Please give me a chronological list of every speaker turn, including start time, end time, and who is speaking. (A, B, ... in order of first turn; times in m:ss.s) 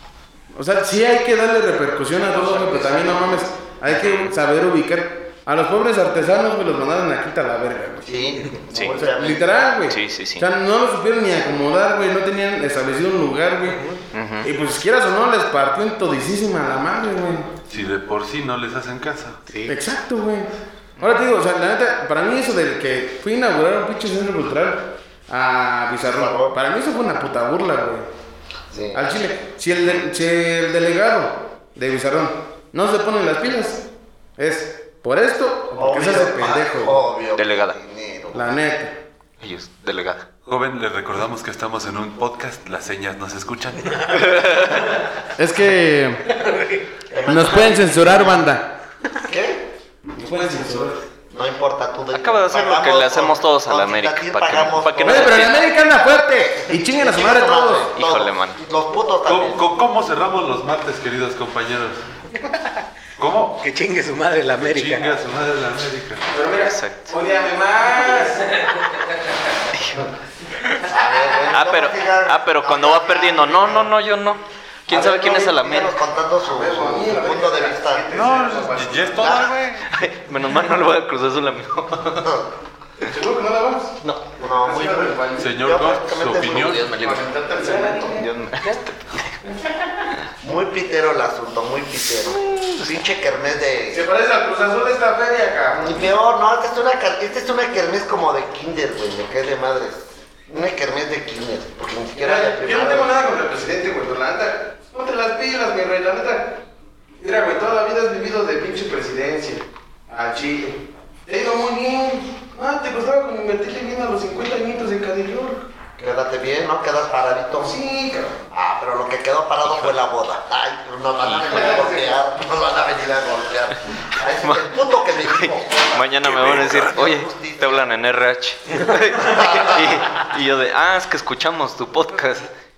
0:00.5-0:08.1 A
0:02.5-0:03.0 B
0:03.9-0:04.3 C
0:08.0-0:09.5 B
0:08.7-0:09.0 C
0:08.9-0:13.8 A
0:09.9-0:10.5 C
0:14.1-0:14.5 C
0:14.4-0:17.5 A
0:17.7-0:19.4 D
0:19.5-0:19.8 E
0:19.6-0:28.1 A
0:21.0-0:21.3 C
0:26.0-0:26.6 B
0:28.7-0:29.0 B
0:28.9-0:33.8 A
0:34.4-0:37.0 A
0:35.8-0:38.5 B
0:37.4-0:37.8 C
0:38.3-0:39.0 A
0:39.4-0:40.2 C
0:40.4-0:44.7 D
0:45.4-0:46.2 A
0:46.3-0:46.8 E
0:47.1-0:48.5 B
0:47.2-0:48.7 A
0:49.2-0:49.7 B
0:50.2-0:51.0 A
0:51.3-0:59.6 B
0:52.1-0:55.6 C
0:55.0-0:57.8 A
0:57.9-0:58.6 C
0:59.2-1:02.0 D
1:03.2-1:03.6 D
1:03.6-1:05.2 E
1:04.6-1:06.2 D
1:06.3-1:08.5 A
1:06.5-1:07.1 C
1:09.7-1:10.0 C
1:10.9-1:13.9 B
1:11.5-1:16.0 C
1:14.9-1:18.1 B
1:16.4-1:19.4 A
1:18.1-1:19.9 D
1:19.2-1:19.5 B
1:19.9-1:22.2 C
1:22.1-1:22.5 B
1:23.0-1:23.9 A
1:24.4-1:26.8 B
1:24.6-1:25.6 A
1:25.4-1:26.9 D
1:26.5-1:29.4 C
1:27.0-1:28.3 A
1:30.4-1:34.0 B
1:32.2-1:33.0 C
1:33.9-1:35.9 A
1:35.7-1:43.1 B
1:42.2-1:46.6 A
1:47.2-1:55.7 A
1:56.0-1:57.8 B
1:57.6-1:58.4 A
1:58.5-2:07.9 B
2:01.2-2:01.7 C
2:04.4-2:12.5 C
2:09.2-2:10.0 B